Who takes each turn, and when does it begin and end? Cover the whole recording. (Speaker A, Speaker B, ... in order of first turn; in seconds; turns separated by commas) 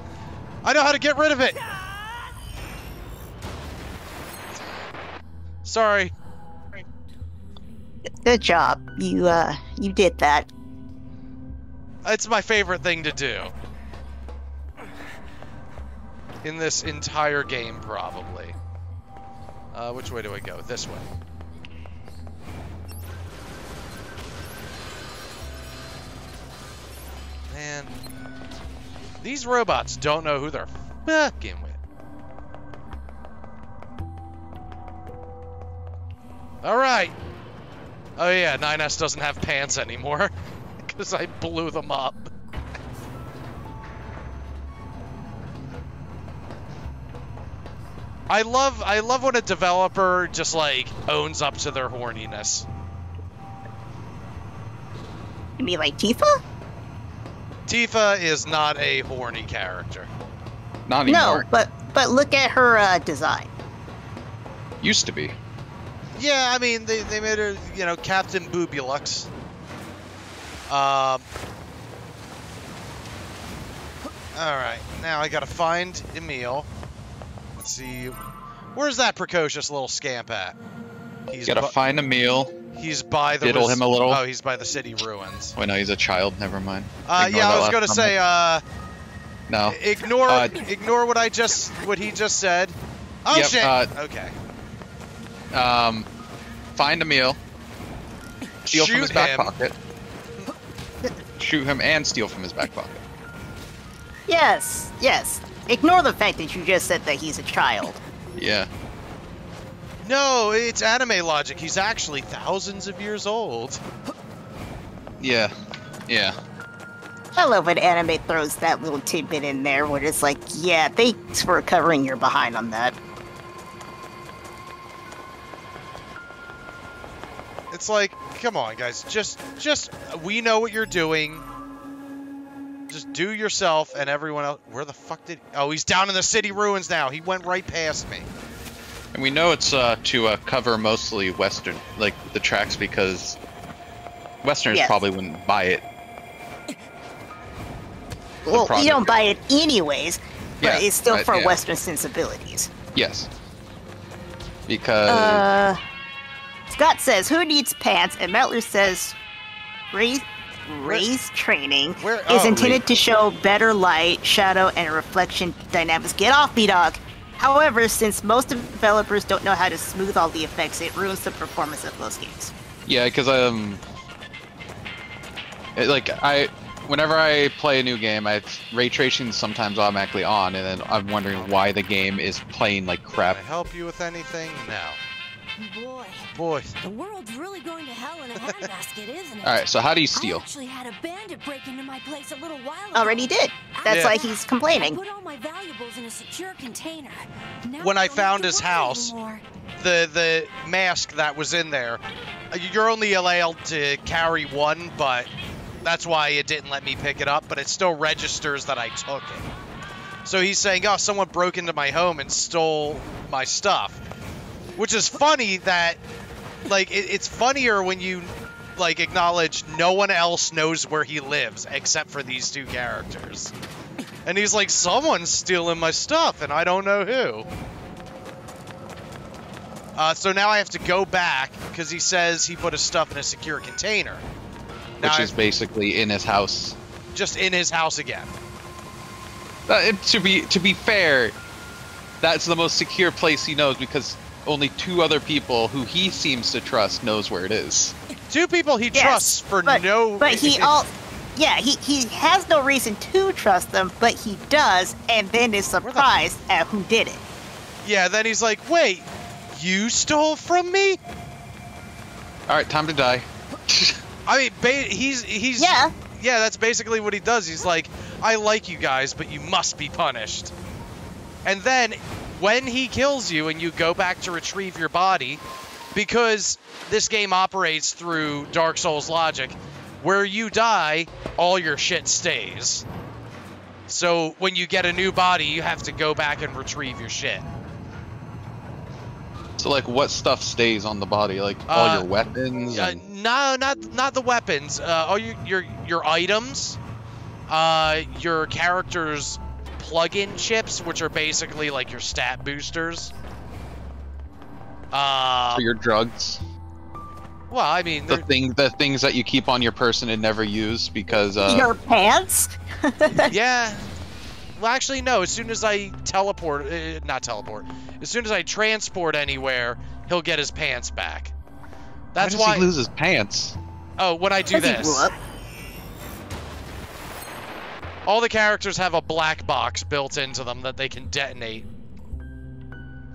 Speaker A: 0.6-1.6, Speaker A: 5.7-6.1, Speaker B: 8.2-10.5, Speaker A: 12.1-13.5, Speaker A: 16.4-18.6, Speaker A: 19.7-21.1, Speaker A: 27.5-27.9, Speaker A: 29.2-31.8, Speaker A: 36.6-37.1, Speaker A: 38.2-42.3, Speaker A: 48.3-52.7, Speaker B: 55.6-56.4, Speaker A: 57.7-60.1, Speaker C: 60.9-61.5, Speaker B: 61.1-63.5, Speaker C: 64.8-65.4, Speaker A: 66.2-69.3, Speaker A: 70.7-71.2, Speaker A: 74.3-76.7, Speaker A: 77.6-78.2, Speaker A: 78.8-80.6, Speaker A: 81.3-81.7, Speaker C: 81.5-82.5, Speaker A: 82.7-85.6, Speaker C: 83.4-84.2, Speaker C: 85.6-88.2, Speaker A: 87.1-88.6, Speaker C: 89.5-90.6, Speaker A: 89.7-94.3, Speaker C: 93.3-93.9, Speaker C: 95.5-96.1, Speaker C: 96.8-97.4, Speaker A: 98.7-99.5, Speaker C: 98.7-99.8, Speaker C: 101.4-103.0, Speaker B: 104.3-108.0, Speaker C: 108.4-108.7, Speaker A: 110.0-113.8, Speaker C: 115.2-115.5, Speaker C: 116.1-116.4, Speaker B: 117.4-123.0, Speaker A: 127.7-131.4, Speaker A: 132.9-138.3, Speaker C: 139.1-143.4, Speaker C: 144.4-145.8, Speaker B: 144.7-145.0, Speaker B: 148.4-152.7, Speaker C: 148.5-149.2, Speaker C: 150.6-151.6, Speaker C: 152.9-153.3, Speaker C: 154.7-155.4, Speaker B: 155.1-155.8, Speaker B: 156.7-159.2, Speaker B: 159.9-172.5, Speaker A: 162.0-162.8, Speaker C: 172.9-173.8, Speaker C: 175.8-183.4, Speaker A: 183.3-185.0, Speaker D: 185.6-186.3, Speaker A: 186.3-186.7, Speaker D: 186.8-199.4, Speaker C: 189.4-190.4, Speaker B: 192.9-195.0, Speaker A: 193.9-194.2, Speaker A: 197.8-199.1, Speaker A: 199.8-202.0, Speaker A: 202.5-205.3, Speaker A: 205.8-209.4, Speaker A: 210.2-214.0, Speaker A: 214.8-216.0, Speaker A: 216.7-223.5, Speaker A: 224.2-227.5, Speaker A: 230.0-234.2, Speaker C: 235.0-236.8, Speaker A: 235.0-235.3, Speaker A: 237.1-238.3, Speaker C: 239.7-241.3, Speaker C: 242.2-247.9, Speaker A: 248.3-250.7, Speaker B: 248.9-257.2, Speaker A: 257.8-261.0, Speaker C: 262.5-264.0, Speaker A: 264.3-270.5, Speaker B: 265.6-265.9, Speaker A: 271.4-275.4, Speaker A: 275.9-282.9, Speaker A: 283.9-287.4, Speaker C: 289.6-293.0, Speaker A: 291.7-292.1, Speaker A: 292.7-296.8, Speaker A: 297.5-303.1, Speaker A: 304.9-305.6, Speaker C: 305.5-306.4, Speaker A: 307.5-308.3, Speaker C: 308.1-311.7, Speaker B: 311.5-313.3, Speaker A: 313.3-313.9, Speaker A: 314.6-321.3, Speaker A: 322.1-322.7, Speaker C: 322.2-323.6, Speaker A: 324.0-325.1, Speaker B: 324.5-325.1, Speaker A: 328.1-331.7